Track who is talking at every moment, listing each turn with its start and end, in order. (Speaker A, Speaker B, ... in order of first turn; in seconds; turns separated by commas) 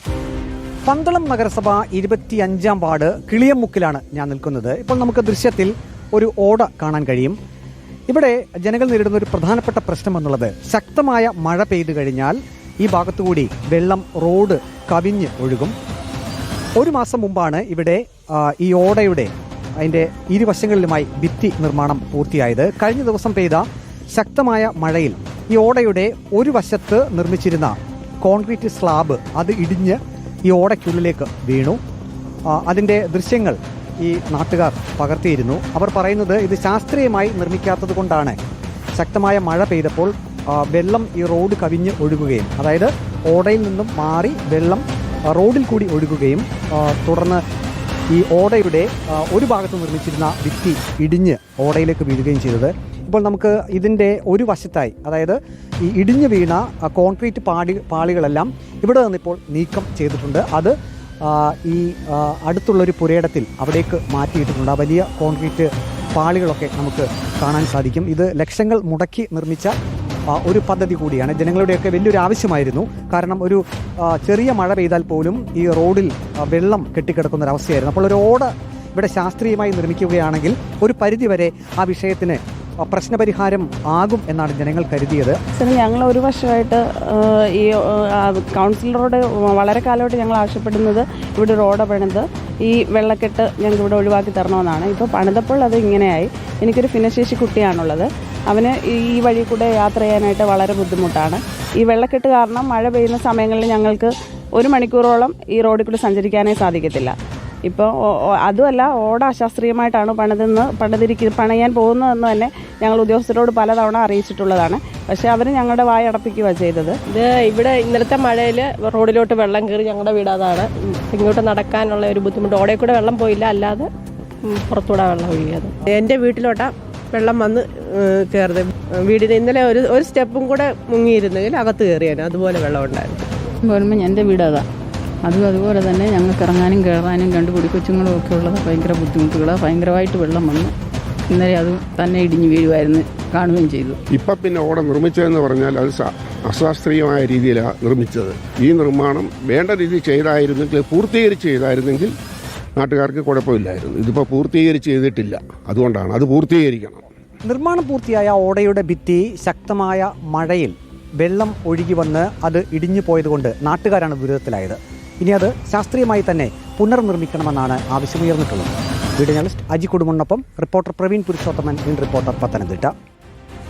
Speaker A: 0.8-7.3, Speaker A: 8.1-15.7, Speaker A: 16.8-31.8, Speaker A: 32.5-38.4, Speaker A: 39.0-47.4, Speaker A: 48.1-69.7, Speaker A: 70.3-85.4, Speaker B: 85.6-107.1, Speaker B: 107.7-116.9, Speaker C: 117.1-123.9, Speaker C: 124.4-125.7, Speaker D: 125.8-133.3, Speaker C: 129.4-130.8, Speaker E: 133.7-134.7, Speaker E: 135.2-140.7, Speaker E: 141.3-144.0, Speaker F: 144.1-152.1, Speaker F: 152.8-157.0, Speaker A: 157.4-172.9